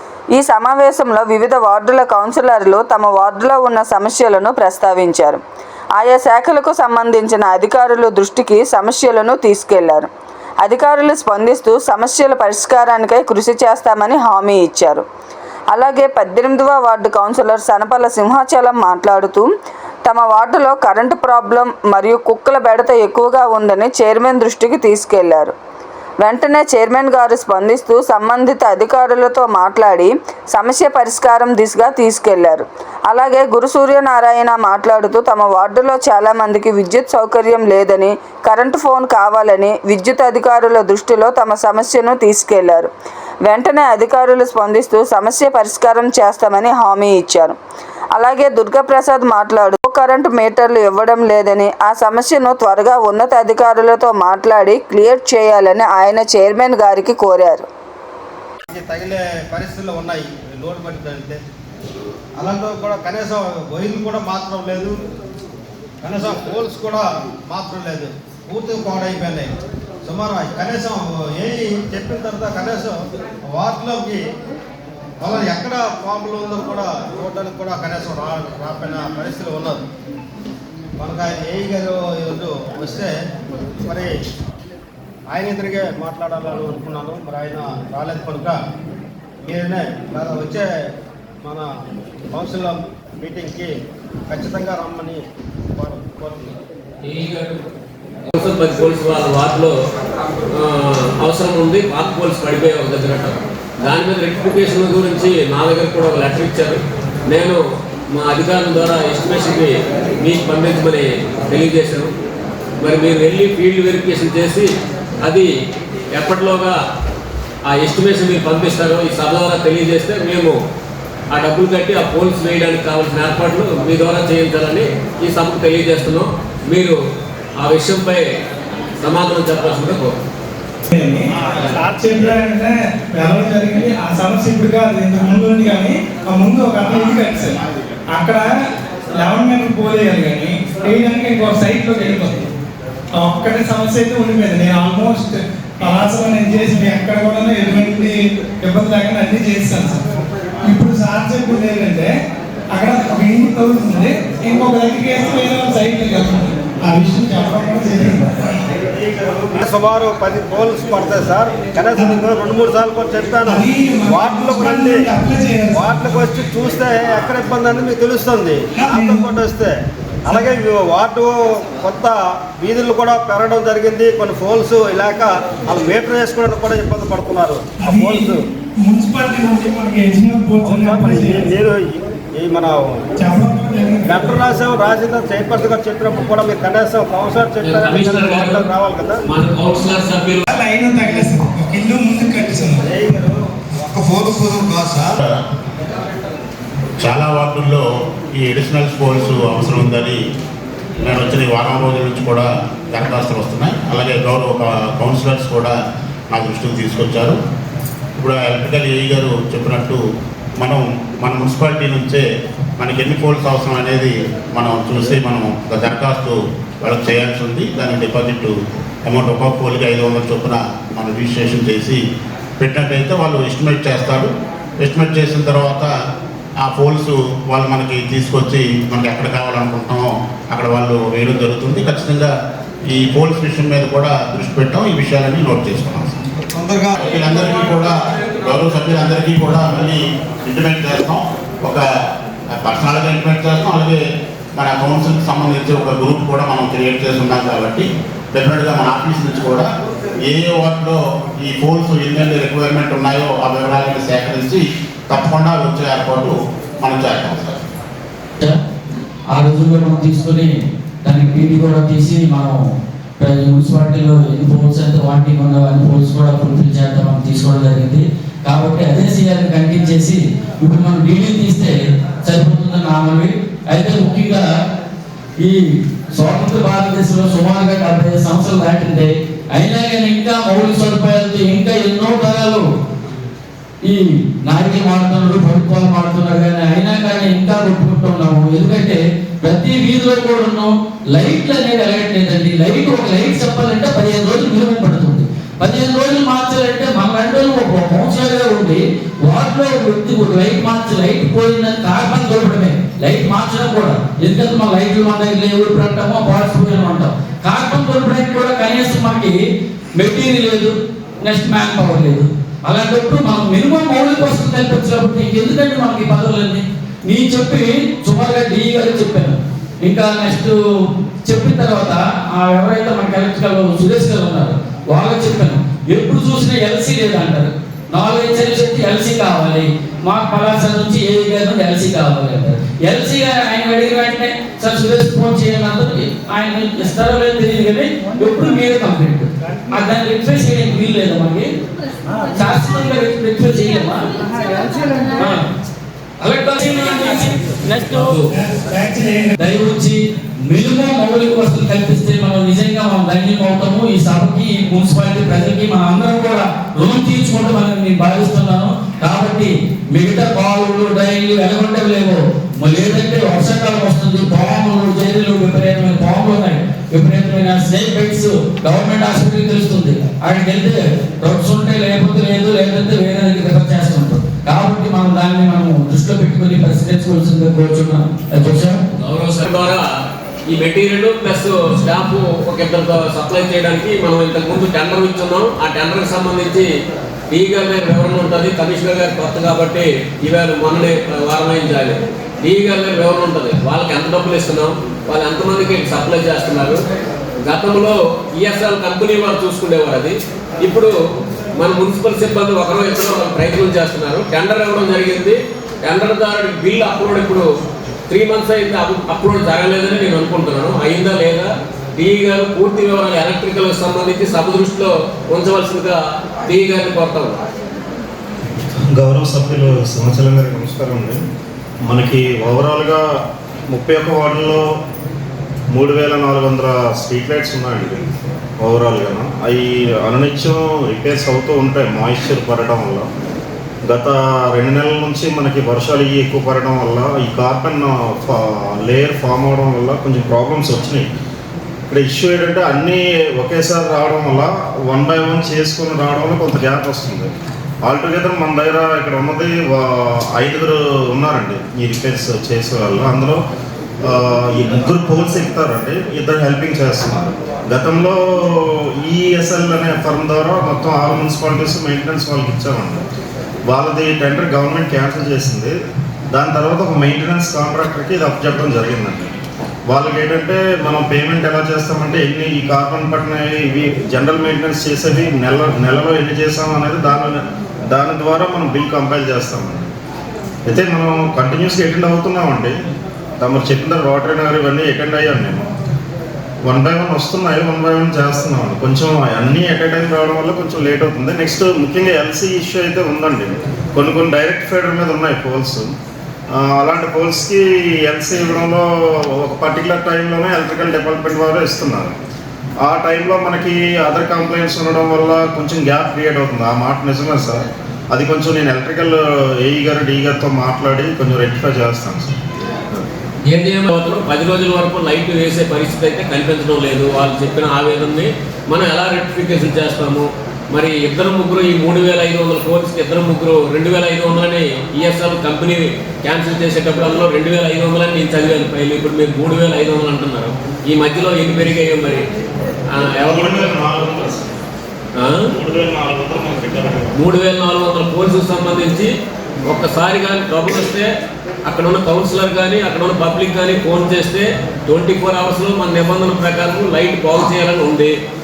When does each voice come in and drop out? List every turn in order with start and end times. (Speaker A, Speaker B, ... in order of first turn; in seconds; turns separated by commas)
Speaker A: 0.3-5.4, Speaker A: 6.0-10.1, Speaker A: 10.6-15.1, Speaker A: 15.7-19.5, Speaker A: 20.1-25.5, Speaker A: 26.2-42.9, Speaker A: 43.5-47.6, Speaker A: 48.1-57.7, Speaker B: 58.7-61.4, Speaker B: 62.4-65.0, Speaker B: 66.0-69.5, Speaker B: 70.0-73.0, Speaker B: 73.5-74.2, Speaker B: 75.2-79.8, Speaker B: 81.0-83.1, Speaker B: 83.8-84.1, Speaker B: 85.3-88.6, Speaker B: 89.4-90.7, Speaker B: 91.4-91.7, Speaker B: 92.3-93.7, Speaker B: 94.3-95.2, Speaker B: 95.7-96.6, Speaker C: 97.0-97.6, Speaker C: 98.3-99.8, Speaker C: 100.5-107.6, Speaker C: 108.1-112.1, Speaker C: 112.8-114.7, Speaker C: 115.2-115.5, Speaker C: 116.1-116.8, Speaker C: 117.7-120.6, Speaker C: 121.3-127.0, Speaker C: 127.6-128.2, Speaker C: 129.0-130.2, Speaker D: 130.9-137.6, Speaker D: 138.1-138.5, Speaker D: 139.2-142.5, Speaker D: 143.2-150.0, Speaker D: 150.6-152.1, Speaker D: 152.7-158.7, Speaker B: 159.0-165.1, Speaker D: 163.5-166.3, Speaker B: 165.7-169.8, Speaker D: 168.8-169.4, Speaker B: 170.3-178.4, Speaker D: 177.8-181.5, Speaker B: 180.6-183.1, Speaker D: 183.2-184.4, Speaker B: 184.1-189.2, Speaker C: 187.6-188.7, Speaker C: 189.3-190.4, Speaker D: 190.5-192.8, Speaker B: 192.8-193.3, Speaker D: 193.9-194.7, Speaker B: 194.7-194.9, Speaker E: 197.0-197.8, Speaker E: 198.4-200.2, Speaker E: 201.0-205.8, Speaker E: 206.3-207.4, Speaker E: 208.2-210.0, Speaker E: 210.6-212.2, Speaker E: 212.8-222.0, Speaker E: 222.6-224.3, Speaker E: 224.8-225.9, Speaker E: 226.6-232.3, Speaker E: 232.9-236.1, Speaker B: 236.6-236.9, Speaker E: 236.9-241.8, Speaker E: 242.5-244.0, Speaker E: 244.6-249.7, Speaker E: 250.2-257.6, Speaker F: 259.3-274.5, Speaker F: 275.4-282.7, Speaker F: 283.8-309.4, Speaker F: 309.9-320.6, Speaker F: 321.2-341.5, Speaker F: 342.3-344.1, Speaker F: 345.1-345.4, Speaker F: 346.2-348.2, Speaker D: 348.4-349.4, Speaker F: 349.4-378.8, Speaker C: 379.0-379.9, Speaker C: 380.5-386.7, Speaker C: 387.3-396.8, Speaker C: 397.4-400.9, Speaker C: 401.6-407.5, Speaker C: 408.1-417.4, Speaker G: 418.9-421.2, Speaker G: 421.9-423.0, Speaker G: 423.7-424.6, Speaker G: 425.7-428.0, Speaker G: 428.6-433.1, Speaker G: 433.9-441.1, Speaker G: 441.9-447.3, Speaker G: 447.9-453.4, Speaker G: 454.0-463.1, Speaker G: 463.7-465.7, Speaker G: 466.3-469.4, Speaker G: 469.9-479.9, Speaker G: 480.7-482.7, Speaker G: 483.4-485.7, Speaker G: 486.7-495.9, Speaker G: 496.6-498.9, Speaker G: 499.4-502.2, Speaker G: 502.9-512.3, Speaker C: 512.9-532.2, Speaker C: 532.9-533.8, Speaker G: 533.2-534.5, Speaker C: 535.2-535.5, Speaker G: 535.5-537.1, Speaker C: 537.2-539.1, Speaker C: 539.7-541.1, Speaker C: 541.7-548.1